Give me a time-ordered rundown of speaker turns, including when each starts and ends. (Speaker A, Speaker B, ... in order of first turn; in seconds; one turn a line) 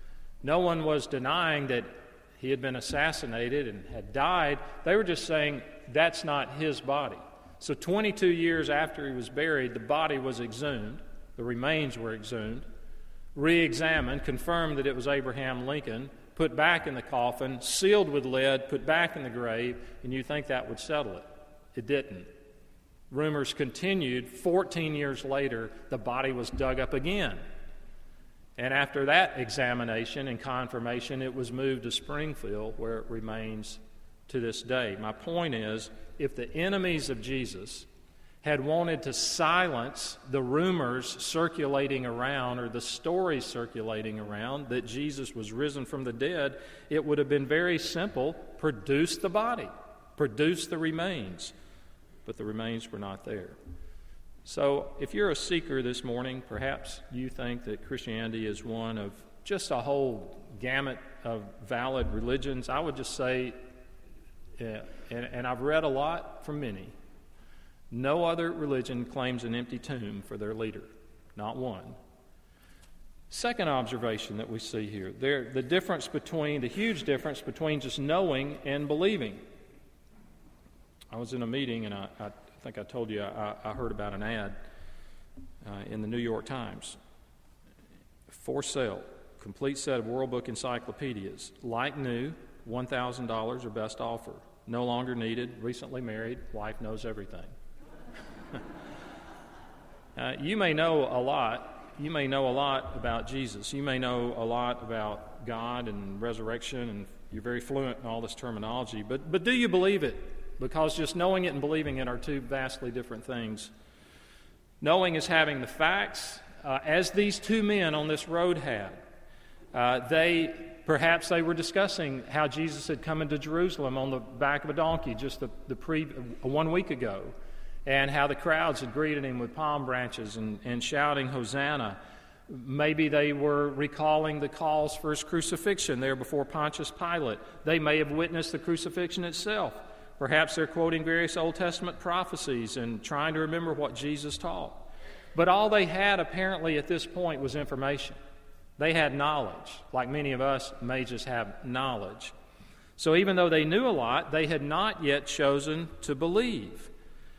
Speaker A: 0.4-12.7
Speaker A: 13.3-22.3
Speaker A: 23.1-27.4
Speaker A: 28.6-37.9
Speaker A: 38.4-51.5
Speaker A: 52.2-53.6
Speaker A: 54.4-63.5
Speaker A: 64.6-66.9
Speaker A: 67.9-72.0
Speaker A: 73.3-79.4
Speaker A: 81.1-84.5
Speaker A: 85.6-87.0
Speaker A: 88.3-97.5
Speaker A: 100.1-113.7
Speaker A: 114.8-119.0
Speaker A: 119.7-148.2
Speaker A: 148.8-152.3
Speaker A: 153.0-156.9